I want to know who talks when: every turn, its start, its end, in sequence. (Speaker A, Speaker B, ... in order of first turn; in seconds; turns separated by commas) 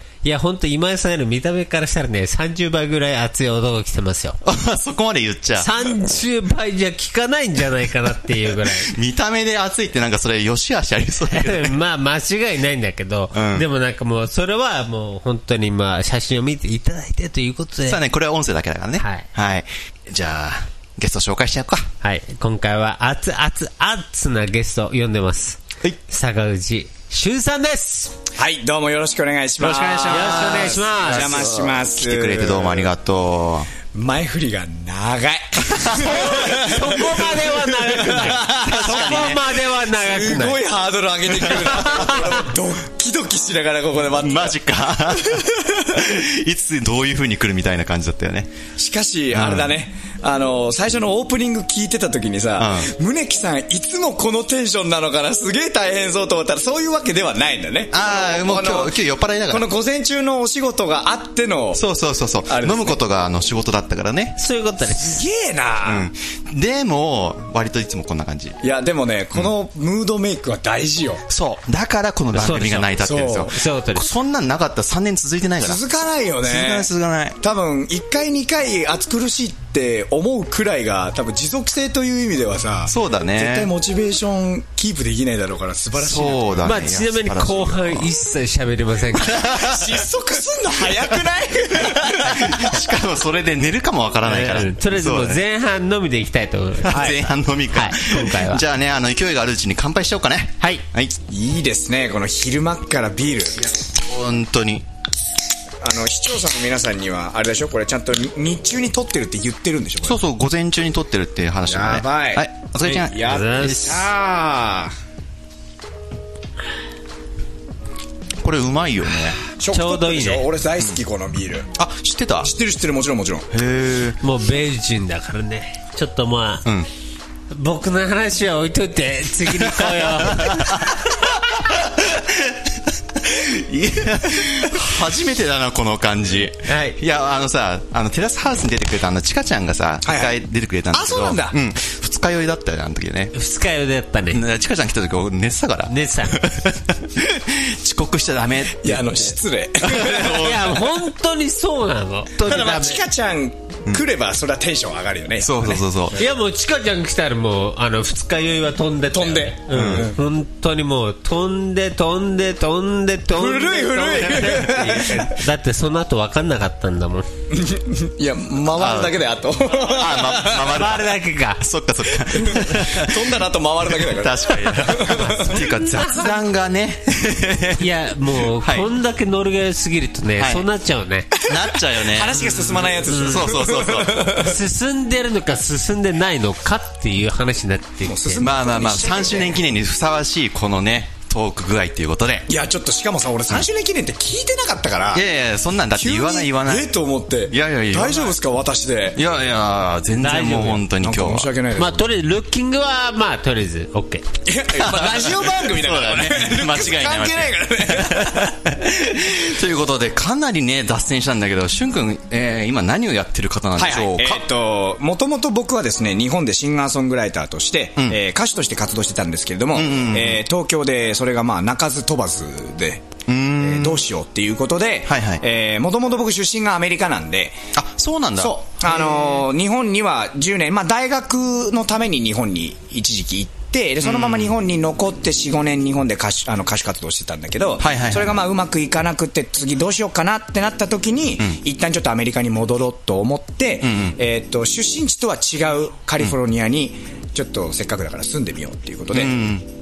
Speaker A: 0.2-4.4, Speaker B: 4.4-5.9, Speaker A: 5.6-8.9, Speaker B: 8.6-11.7, Speaker A: 11.3-18.0, Speaker B: 13.3-13.7, Speaker B: 17.8-21.9, Speaker A: 19.0-19.2, Speaker A: 22.0-28.1, Speaker C: 28.4-32.9, Speaker B: 29.6-33.7, Speaker A: 29.9-31.4, Speaker C: 33.9-38.6, Speaker B: 35.7-36.3, Speaker A: 36.0-40.6, Speaker B: 38.1-39.5, Speaker C: 39.9-44.6, Speaker A: 41.4-42.2, Speaker B: 44.2-48.5, Speaker C: 45.1-45.9, Speaker C: 48.8-59.0, Speaker B: 49.3-49.7, Speaker B: 52.6-52.9, Speaker B: 57.9-59.6, Speaker C: 59.5-61.8, Speaker B: 61.7-64.4, Speaker C: 62.5-63.0, Speaker A: 64.4-65.2, Speaker C: 64.9-66.1, Speaker B: 65.8-68.5, Speaker C: 68.6-71.2, Speaker B: 71.3-75.8, Speaker A: 72.3-74.1, Speaker C: 73.0-73.5, Speaker C: 75.6-76.9, Speaker B: 76.4-77.4, Speaker C: 77.4-86.6, Speaker B: 82.8-83.7, Speaker B: 86.0-88.1, Speaker A: 86.6-89.4, Speaker B: 89.1-90.0, Speaker C: 89.4-92.8, Speaker B: 91.8-95.4, Speaker A: 94.2-97.0, Speaker B: 96.8-101.2, Speaker C: 96.9-97.2, Speaker A: 97.7-98.6, Speaker C: 101.3-103.8, Speaker B: 103.8-104.8, Speaker C: 105.8-110.2, Speaker B: 110.0-114.0, Speaker C: 111.7-114.9, Speaker A: 112.8-114.0, Speaker B: 118.4-119.4, Speaker C: 119.5-121.7, Speaker A: 119.7-120.4, Speaker B: 121.8-122.5, Speaker C: 122.4-123.5, Speaker B: 123.5-124.2, Speaker A: 124.2-126.7, Speaker A: 127.5-130.9, Speaker B: 129.6-143.3, Speaker A: 136.7-137.0, Speaker C: 140.0-140.4, Speaker C: 140.9-141.6, Speaker A: 143.3-144.4, Speaker B: 144.3-150.9, Speaker A: 145.9-146.4, Speaker C: 148.8-150.6, Speaker A: 150.1-153.0, Speaker C: 152.4-155.8, Speaker B: 155.4-156.2, Speaker A: 156.1-167.3, Speaker C: 159.1-160.2, Speaker B: 159.7-160.1, Speaker C: 163.3-165.3, Speaker C: 167.5-170.8, Speaker B: 168.7-169.2, Speaker B: 169.7-173.3, Speaker A: 170.7-171.6, Speaker C: 172.2-175.7, Speaker B: 173.9-177.9, Speaker A: 175.9-176.3, Speaker A: 177.8-181.3, Speaker B: 178.6-178.9, Speaker B: 180.4-180.7, Speaker B: 181.4-184.3, Speaker C: 181.4-184.6, Speaker A: 183.0-183.5, Speaker A: 184.3-188.4, Speaker C: 188.0-189.6, Speaker B: 188.4-192.5, Speaker C: 192.5-195.2, Speaker B: 195.1-196.9, Speaker C: 195.9-199.2, Speaker B: 197.5-198.3, Speaker B: 199.1-201.5, Speaker A: 200.2-200.8, Speaker C: 201.0-202.0, Speaker A: 201.8-204.2, Speaker C: 204.4-208.5, Speaker B: 204.7-214.4, Speaker C: 213.8-227.6, Speaker B: 219.7-220.4, Speaker B: 223.3-224.0, Speaker B: 225.1-225.4, Speaker B: 227.7-228.5, Speaker C: 228.4-249.3, Speaker B: 234.0-234.5, Speaker B: 237.8-238.4, Speaker B: 243.8-244.2, Speaker B: 249.1-249.6